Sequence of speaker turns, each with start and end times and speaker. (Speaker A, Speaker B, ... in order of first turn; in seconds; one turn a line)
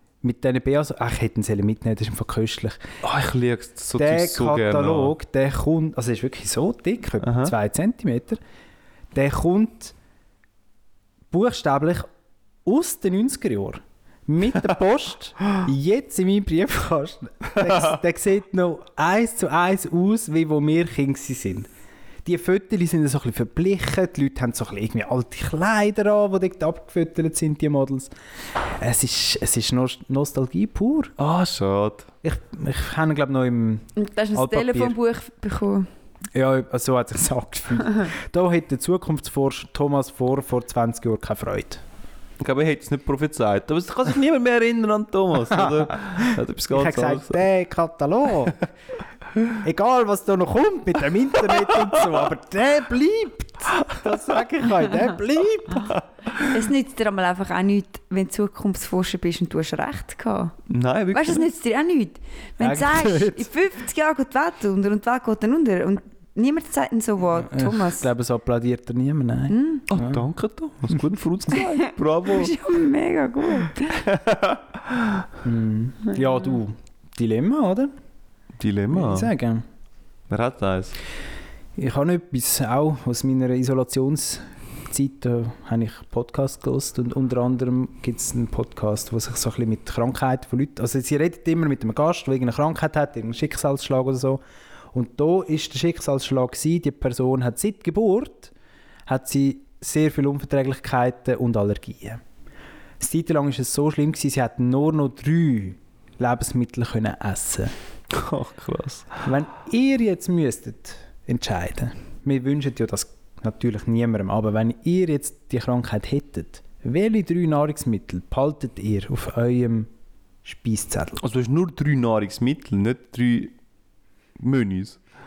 Speaker A: 0.2-2.9
Speaker B: 3.0-5.1
Speaker A: 4.0-8.4
Speaker B: 7.2-7.5
Speaker A: 9.1-9.9
Speaker A: 11.3-12.1
Speaker A: 12.6-21.7
Speaker A: 22.2-28.1
Speaker A: 28.6-31.1
Speaker B: 31.2-32.1
Speaker A: 32.2-35.0
Speaker C: 34.0-35.9
Speaker A: 36.3-41.8
Speaker B: 42.4-47.4
Speaker A: 45.5-48.6
Speaker A: 49.6-55.9
Speaker B: 55.9-56.5
Speaker C: 56.4-60.5
Speaker B: 60.7-61.5
Speaker C: 61.1-68.1
Speaker A: 62.6-63.5
Speaker A: 67.4-70.2
Speaker C: 69.5-69.9
Speaker B: 69.9-72.5
Speaker C: 72.3-74.0
Speaker B: 74.0-75.2
Speaker A: 75.4-77.9
Speaker B: 78.6-79.3
Speaker A: 78.9-79.6
Speaker B: 80.3-81.0
Speaker A: 81.8-94.4
Speaker A: 94.9-98.5
Speaker A: 99.1-102.2
Speaker A: 103.0-107.7
Speaker B: 108.1-109.2
Speaker A: 109.2-119.9
Speaker A: 120.4-121.2
Speaker B: 121.2-123.5
Speaker B: 124.4-125.0